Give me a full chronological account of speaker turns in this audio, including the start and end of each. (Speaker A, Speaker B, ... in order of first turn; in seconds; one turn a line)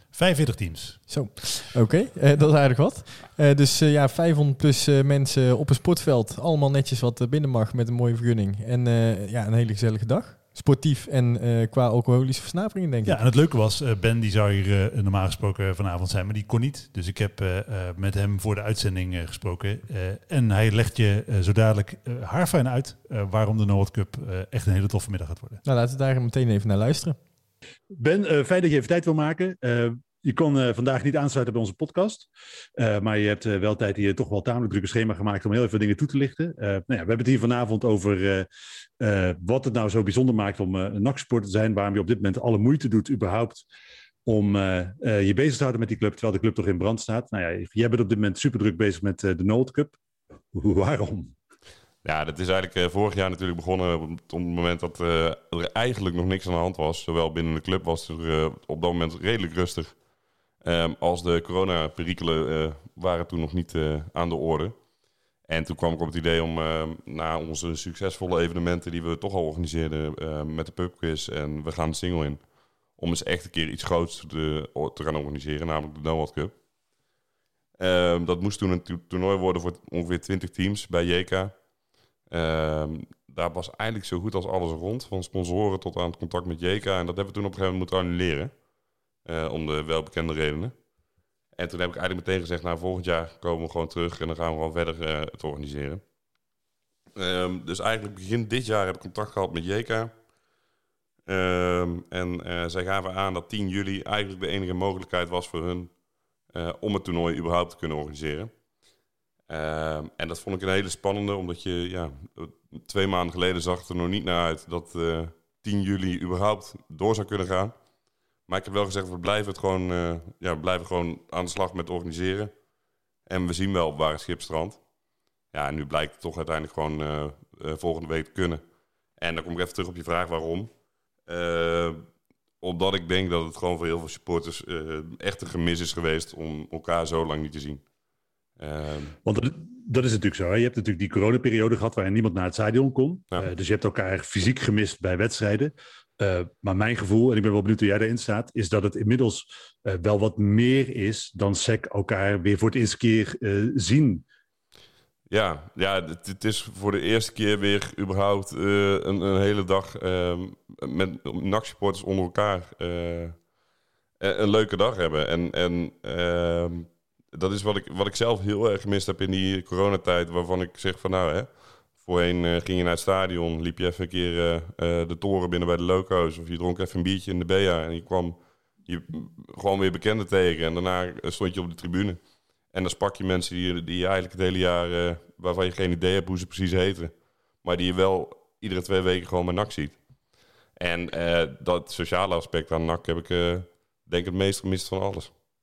Speaker A: 0.1-1.0
Speaker B: 1.1-13.2
Speaker A: 13.1-25.6
Speaker B: 25.6-27.2
Speaker A: 27.9-38.5
Speaker A: 39.0-43.6
Speaker A: 44.2-50.0
Speaker A: 50.5-51.3
Speaker C: 52.0-60.0
Speaker C: 60.6-64.8
Speaker C: 65.5-76.6
Speaker C: 77.8-81.6
Speaker C: 82.3-88.6
Speaker C: 89.2-90.8
Speaker C: 91.5-96.0
Speaker C: 97.2-100.1
Speaker C: 101.3-106.0
Speaker C: 106.5-108.5
Speaker C: 109.5-117.8
Speaker C: 118.5-122.5
Speaker C: 123.3-124.8
Speaker C: 125.5-128.6
Speaker C: 129.2-130.7
Speaker C: 131.3-132.1
Speaker C: 132.6-137.8
Speaker C: 138.6-139.2
Speaker A: 139.2-154.2
Speaker C: 155.3-163.4
Speaker C: 164.2-190.0
Speaker C: 190.8-195.3